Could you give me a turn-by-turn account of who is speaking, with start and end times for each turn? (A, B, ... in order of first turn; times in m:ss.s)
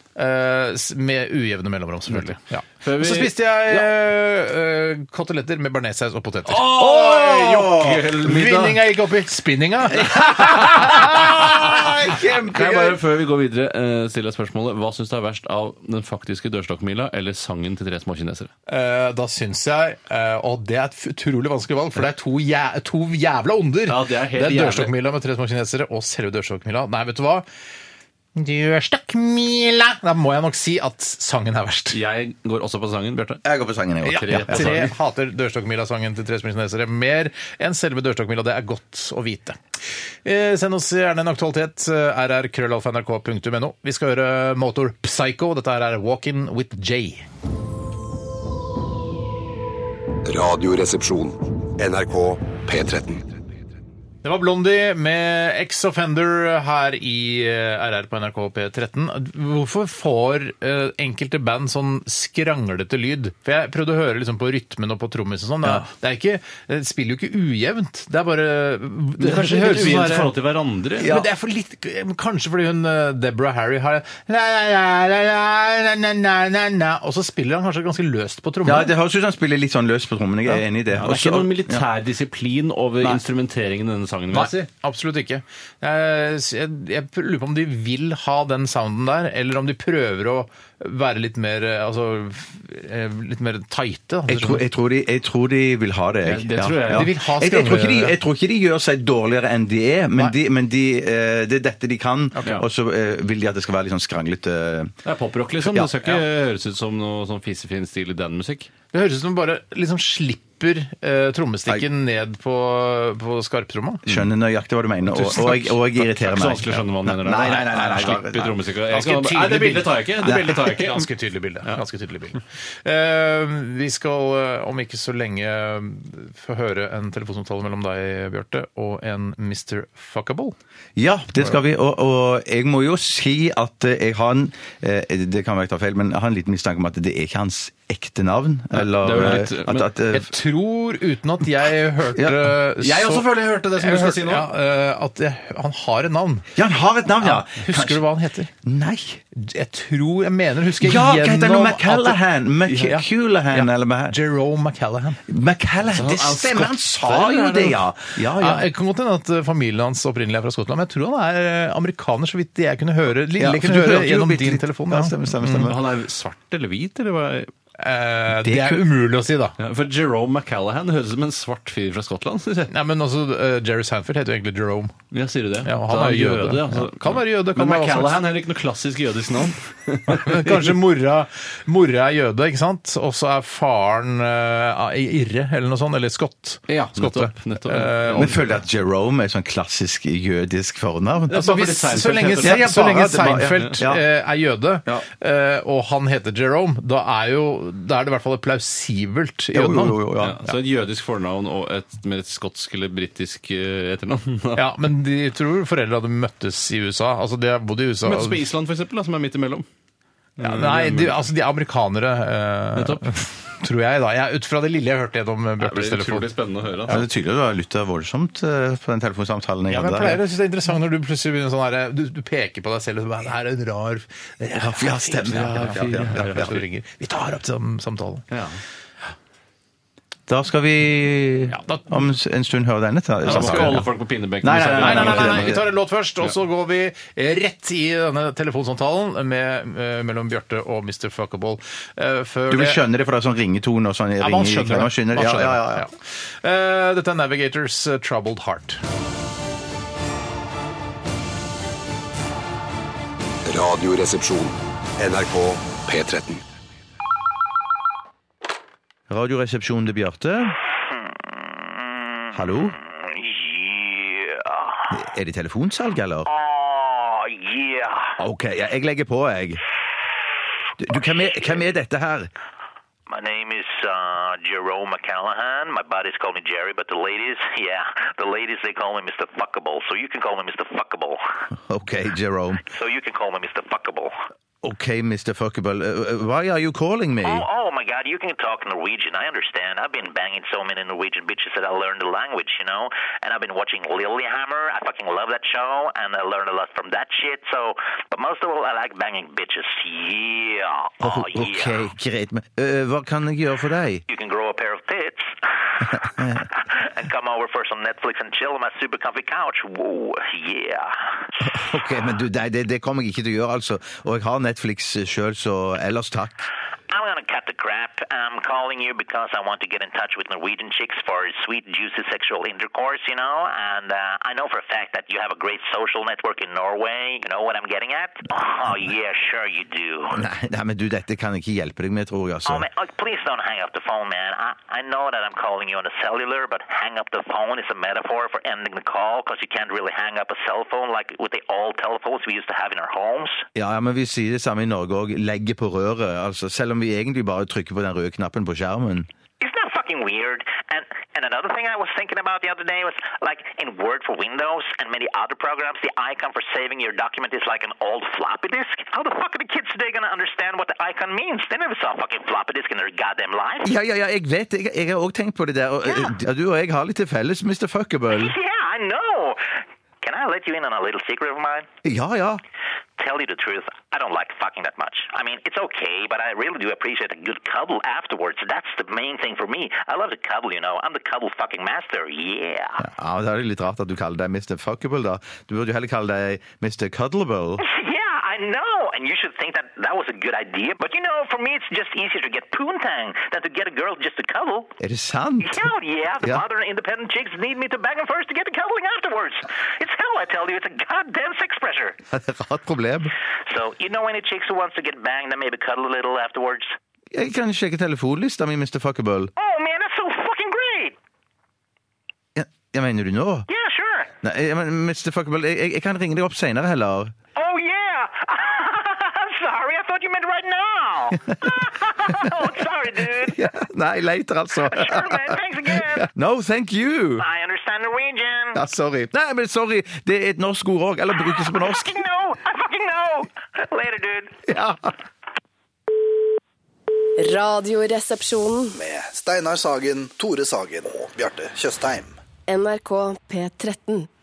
0:00.2-0:07.3 A
0:02.8-0:03.8 B
0:06.5-0:08.1 C
0:06.6-0:08.8 B
0:08.2-0:11.9 A
0:09.9-0:13.0 C
0:12.5-0:18.5 B
0:18.7-0:27.4 A
0:23.9-0:24.9 B
0:28.4-0:32.0 A
0:31.9-0:33.4 B
0:33.4-0:34.8 C
0:34.0-0:39.6 A
0:34.1-0:34.9 B
0:40.2-0:47.2 A
0:50.2-0:53.3 D
0:54.2-1:10.3 A
1:09.2-1:11.2 B
1:11.0-1:11.2 C
1:11.0-1:18.9 A
1:18.6-1:21.8 C
1:21.0-1:24.6 B
1:24.3-1:34.6 A
1:34.3-1:45.0 C
1:36.2-1:37.1 B
1:36.9-1:38.2 A
1:42.3-1:42.6 A
1:45.0-1:48.7 B
1:45.6-1:46.2 C
1:48.9-1:54.1 A
1:54.1-1:58.6 C
1:55.1-1:55.7 A
1:56.0-2:01.1 B
1:58.9-2:10.5 A
2:00.2-2:00.7 C
2:11.0-2:20.3 C
2:18.7-2:19.9 B
2:20.1-2:26.4 A
2:22.2-2:22.5 C
2:22.8-2:24.5 B
2:26.5-2:28.0 C
2:27.2-2:28.5 A
2:28.6-2:29.2 C
2:29.3-2:35.2 A
2:30.8-2:34.2 C
2:35.3-2:38.7 C
2:35.9-2:37.4 B
2:37.2-2:37.7 A
2:38.4-2:45.7 A
2:43.4-2:45.8 C
2:45.4-2:47.5 B
2:47.8-2:49.6 A
2:48.4-2:48.8 C
2:49.6-2:52.7 B
2:52.7-2:55.0 A
2:55.1-3:00.8 B
2:55.6-2:58.2 A
3:00.1-3:08.4 A
3:06.7-3:08.4 B
3:08.1-3:11.4 C
3:11.3-3:13.7 B
3:11.3-3:20.5 A
3:12.4-3:14.0 C
3:19.5-3:20.4 C
3:20.2-3:24.8 B
3:24.6-3:28.4 A
3:28.0-3:29.6 B
3:30.4-3:31.2 B
3:30.4-3:36.3 A
3:32.8-3:33.2 B
3:35.6-3:37.0 B
3:36.9-3:40.2 C
3:39.7-3:48.3 A
3:44.5-3:46.5 C
3:45.3-3:46.6 B
3:48.3-3:48.6 B
3:50.3-3:53.9 C
3:51.5-3:52.1 A
3:53.2-3:53.8 A
3:53.2-3:55.6 B
3:54.4-3:55.6 C
3:54.8-4:02.8 A
4:02.5-4:05.9 C
4:04.2-4:08.8 A
4:13.4-4:16.4 D
4:19.1-4:20.6 C
4:20.9-4:25.0 E
4:22.3-4:22.8 C
4:24.9-4:26.3 C
4:26.2-4:28.1 E
4:28.2-4:29.6 C
4:30.8-4:32.3 C
4:33.1-4:41.2 E
4:41.6-4:42.6 C
4:42.7-4:44.1 E
4:44.6-4:47.4 C
4:47.2-5:01.8 E
5:01.0-5:04.0 C
5:04.1-5:05.8 E
5:05.8-5:06.5 C
5:06.6-5:11.1 E
5:11.4-5:16.5 C
5:16.9-5:30.2 E
5:30.1-5:32.7 C
5:32.4-5:43.4 E
5:43.5-5:49.1 C
5:49.4-6:03.7 E
6:03.6-6:08.4 C
6:05.9-6:06.1 E
6:08.1-6:11.7 E
6:11.8-6:12.4 C
6:13.0-6:22.8 E
6:22.8-6:27.6 C
6:27.6-6:34.7 E
6:34.8-6:35.7 C
6:35.4-6:42.0 E
6:42.1-6:43.1 C
6:43.5-6:46.7 E
6:47.1-6:49.3 C
6:49.4-6:50.9 E
6:52.3-6:53.5 C
6:53.5-6:54.1 E
6:54.2-6:57.1 C
6:57.4-7:03.4 E
7:03.2-7:07.3 C
7:04.6-7:06.1 E
7:07.2-7:08.6 E
7:08.5-7:12.0 C
7:11.1-7:14.4 E
7:14.5-7:14.9 C
7:17.2-7:18.8 F
7:18.8-7:22.1 G
7:22.5-7:24.1 F